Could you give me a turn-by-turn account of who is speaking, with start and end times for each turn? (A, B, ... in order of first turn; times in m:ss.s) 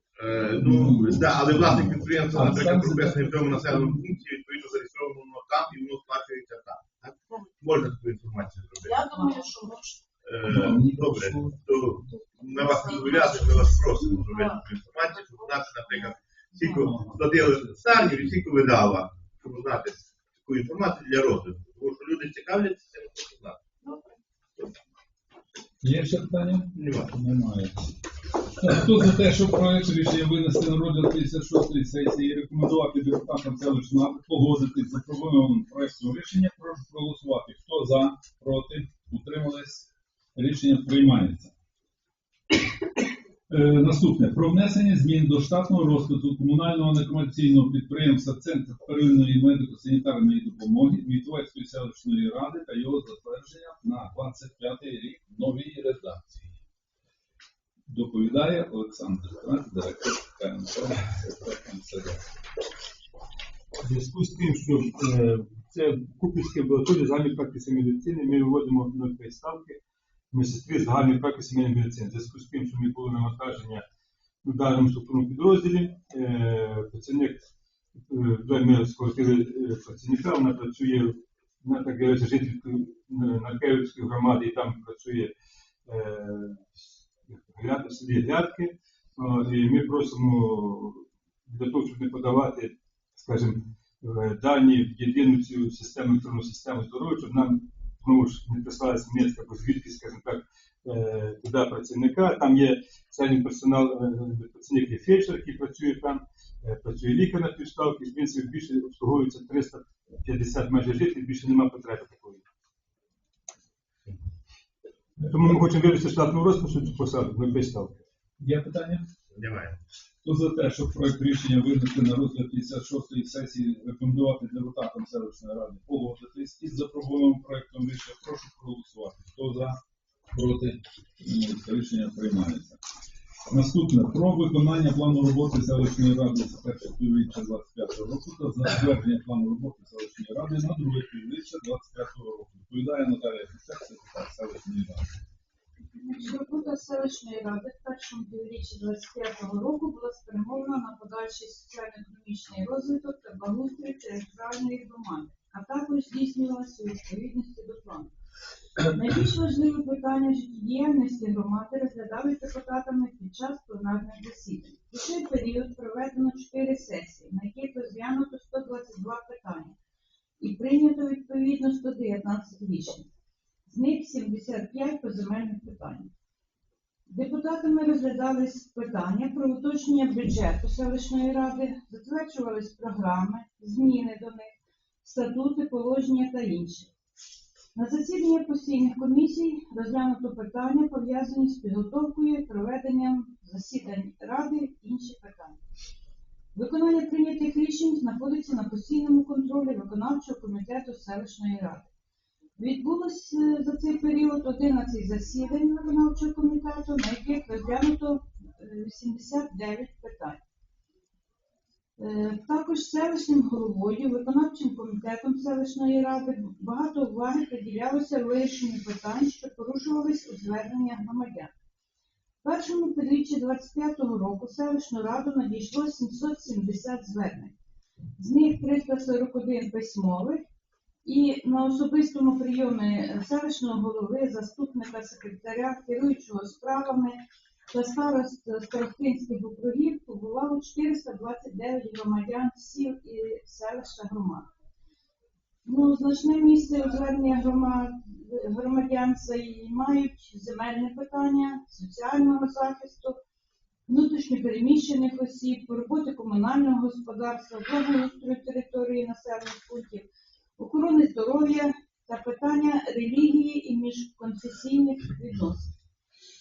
0:00.2-0:09.1 A
0:00.4-0:04.0 B
0:08.8-0:10.0 C
0:09.1-0:09.5 D
0:10.2-0:23.6 A
0:10.4-0:11.8 B
0:12.5-0:16.1 C
0:12.8-0:13.2 D
0:16.6-0:16.9 D
0:16.7-0:18.4 B
0:23.8-0:24.2 C
0:25.8-0:27.9 B
0:26.8-0:27.1 A
0:28.6-0:41.5 B
0:43.5-0:56.6 B
0:57.9-1:02.2 B
1:03.8-1:09.8 E
1:10.3-1:13.8 E
1:14.4-1:17.5 E
1:18.1-1:25.3 E
1:25.8-1:52.4 E
1:55.2-1:58.0 E
1:58.4-1:59.1 B
1:59.3-1:59.8 A
2:00.2-2:09.8 B
2:10.3-2:12.8 B
2:13.5-2:25.1 B
2:25.9-2:38.1 D
2:38.9-2:49.8 D
2:50.4-2:53.1 D
2:53.7-2:56.1 D
2:57.1-3:06.9 D
3:07.8-3:15.6 D
3:16.5-3:21.9 D
3:22.6-3:30.4 D
3:32.0-3:41.5 D
3:42.4-3:47.5 D
3:48.2-3:50.4 D
3:51.0-3:57.2 D
3:57.7-4:04.5 D
4:05.6-4:13.2 D
4:13.9-4:20.0 D
4:20.6-4:25.7 D